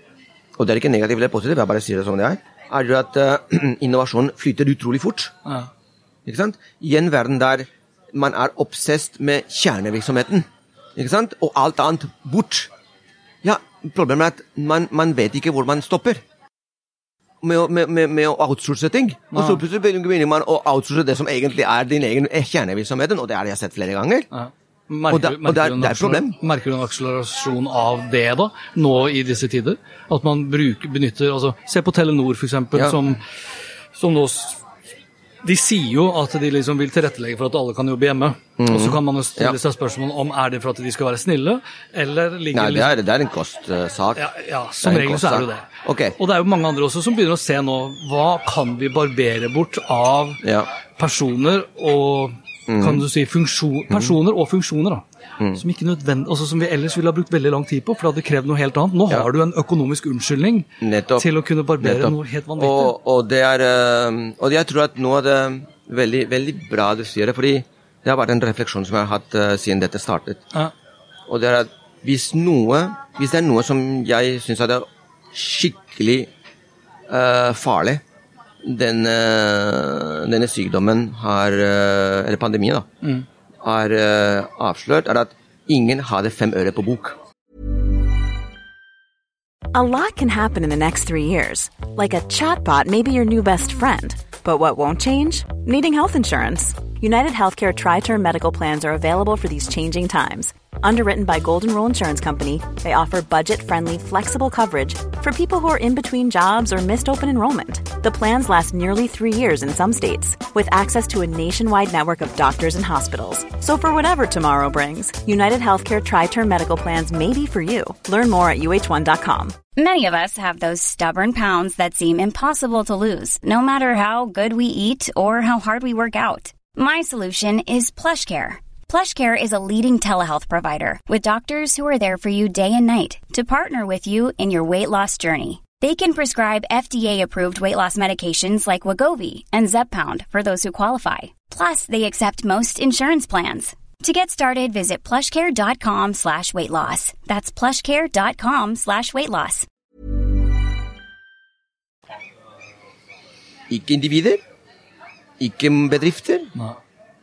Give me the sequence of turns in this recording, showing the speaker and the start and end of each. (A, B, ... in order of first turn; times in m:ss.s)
0:00.6-0:05.3 A
0:06.2-0:12.7 A
0:13.4-0:16.2 A
0:17.4-0:24.3 A
0:19.3-0:19.6 B
0:24.3-0:33.3 B
0:25.1-0:26.4 A
0:33.9-0:34.6 B
0:35.4-0:43.0 B
0:38.6-0:39.6 A
0:42.5-0:44.3 A
0:44.2-0:50.4 B
0:44.8-0:46.2 A
0:50.4-0:50.7 A
0:51.0-0:55.0 B
0:52.7-0:53.0 A
0:55.5-1:02.9 B
1:00.8-1:01.3 A
1:01.8-1:10.4 A
1:11.3-1:16.3 A
1:17.1-1:18.0 A
1:18.6-1:22.9 A
1:23.6-1:27.2 A
1:29.7-1:59.6 C
1:59.8-2:29.6 D
2:33.7-2:34.4 A
2:35.4-2:36.5 A